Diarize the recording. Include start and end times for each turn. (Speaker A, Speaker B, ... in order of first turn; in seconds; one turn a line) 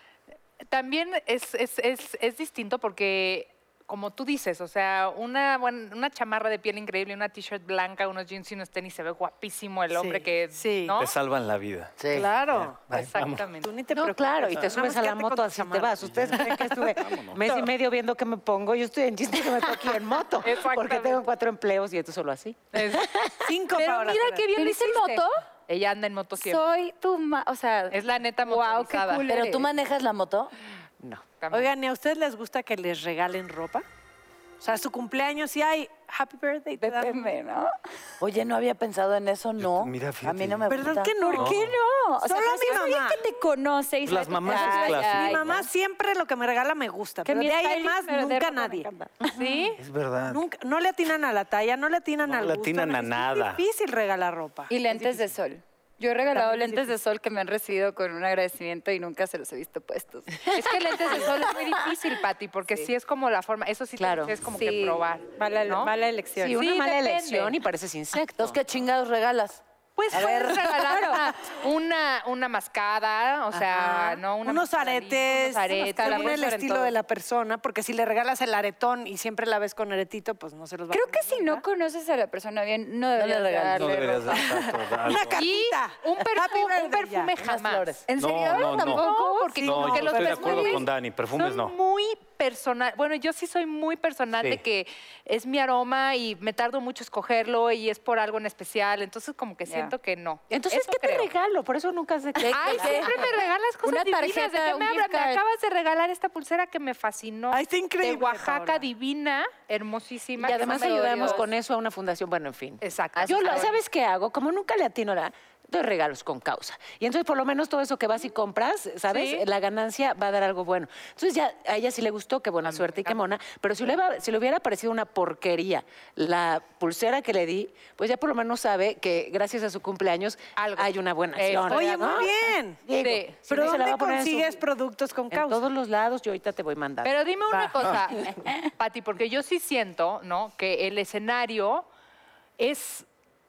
Speaker A: 0.7-11.1
Speaker B: 9.9-11.0
Speaker C: 11.0-13.5
Speaker D: 12.0-12.3
Speaker B: 12.1-12.9
Speaker A: 12.9-13.7
Speaker B: 13.6-17.7
Speaker E: 13.9-23.5
Speaker C: 16.0-17.4
Speaker A: 20.4-21.2
Speaker A: 22.7-23.1
Speaker B: 23.4-24.5
Speaker A: 23.7-26.6
Speaker F: 24.6-25.4
Speaker F: 26.4-29.7
Speaker A: 27.9-29.2
Speaker D: 29.3-30.5
Speaker E: 31.0-31.3
Speaker A: 31.4-31.7
Speaker B: 31.5-33.9
Speaker B: 34.6-37.2
Speaker F: 36.8-37.7
Speaker D: 38.2-41.2
Speaker C: 39.6-41.7
Speaker B: 40.7-43.2
Speaker F: 41.2-45.7
Speaker C: 44.0-45.7
Speaker B: 44.5-49.7
Speaker F: 47.2-49.7
Speaker A: 49.3-49.8
Speaker C: 49.8-50.5
Speaker B: 50.3-55.3
Speaker C: 52.2-53.6
Speaker F: 54.7-61.6
Speaker B: 56.3-56.9
Speaker A: 60.5-65.9
Speaker E: 64.0-64.3
Speaker F: 64.5-66.6
Speaker E: 66.4-68.6
Speaker A: 66.5-67.6
Speaker D: 68.4-70.7
Speaker A: 70.0-76.4
Speaker F: 70.8-71.3
Speaker B: 71.0-71.2
Speaker B: 74.4-81.6
Speaker F: 75.8-77.0
Speaker F: 80.9-84.5
Speaker D: 83.2-84.4
Speaker C: 83.8-85.5
Speaker B: 84.4-87.3
Speaker A: 85.3-101.3
Speaker D: 87.4-88.1
Speaker F: 88.1-90.8
Speaker C: 88.1-89.0
Speaker B: 89.6-90.8
Speaker C: 89.6-91.8
Speaker F: 99.7-99.9
Speaker E: 100.5-103.3
Speaker A: 102.5-111.5
Speaker D: 102.6-103.2
Speaker F: 102.8-103.2
Speaker F: 103.8-105.4
Speaker B: 107.5-108.8
Speaker E: 110.4-134.6
Speaker F: 110.6-111.5
Speaker A: 112.8-113.8
Speaker F: 113.2-113.7
Speaker A: 119.1-119.5
Speaker A: 122.6-123.3
Speaker A: 130.6-132.3
Speaker B: 131.7-132.9
Speaker A: 133.0-133.8
Speaker B: 133.4-135.7
Speaker E: 135.3-137.1
Speaker A: 137.0-141.9
Speaker B: 137.5-137.9
Speaker A: 142.6-143.1